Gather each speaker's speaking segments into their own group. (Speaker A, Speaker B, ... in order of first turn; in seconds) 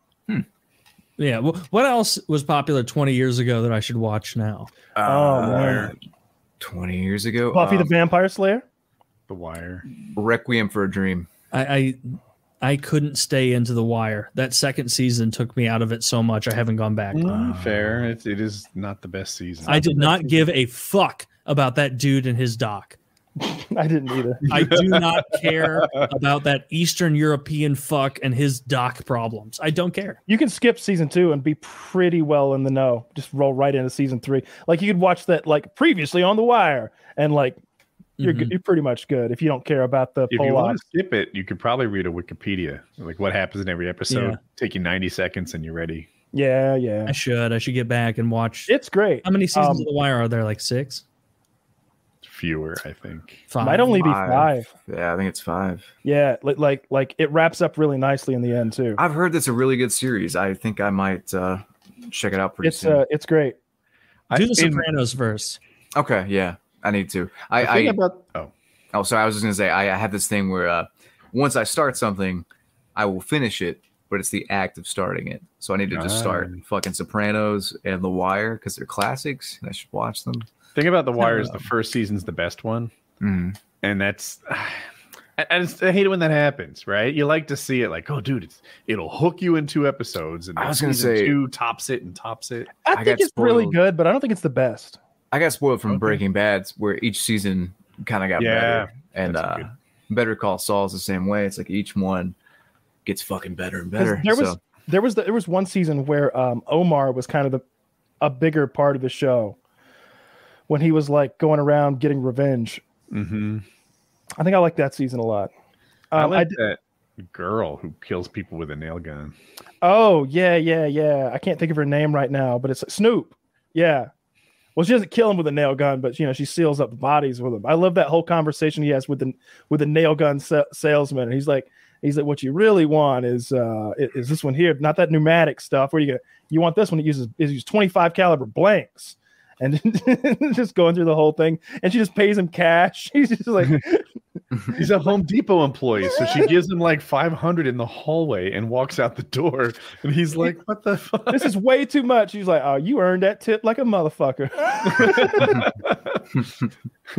Speaker A: 1.2-4.7, 11.5-17.3, 19.6-23.0, 24.5-30.2, 38.2-38.5, 44.1-44.4, 47.1-51.0, 53.5-54.1, 64.3-65.6
Speaker B: 5.0-6.0, 6.6-7.9, 10.1-11.3, 17.3-18.0, 53.9-55.9, 59.0-63.0, 65.9-68.0, 68.9-80.5, 81.2-81.6, 83.2-83.6, 90.6-91.3, 92.9-93.8, 95.3-102.3, 103.0-104.6
Speaker C: 5.0-5.9, 7.5-8.6, 19.6-20.4, 23.4-24.6, 30.3-37.6, 38.2-40.8, 46.3-47.1, 48.7-49.9, 53.6-54.7, 56.0-59.0, 62.6-63.5, 92.8-95.0, 104.0-107.6, 108.2-109.6, 110.7-112.8, 114.4-115.5, 116.1-116.6, 119.8-124.1, 124.8-144.1, 146.2-146.4, 151.3-155.6
Speaker D: 5.5-5.8, 9.3-9.8, 17.1-20.0, 24.5-25.7, 40.3-46.1, 52.2-53.4, 64.3-64.9, 67.7-68.5, 75.9-76.6, 80.7-82.9, 83.8-92.7, 95.9-96.2, 98.4-99.7, 113.1-113.6, 116.1-119.3, 144.7-151.5, 154.9-156.2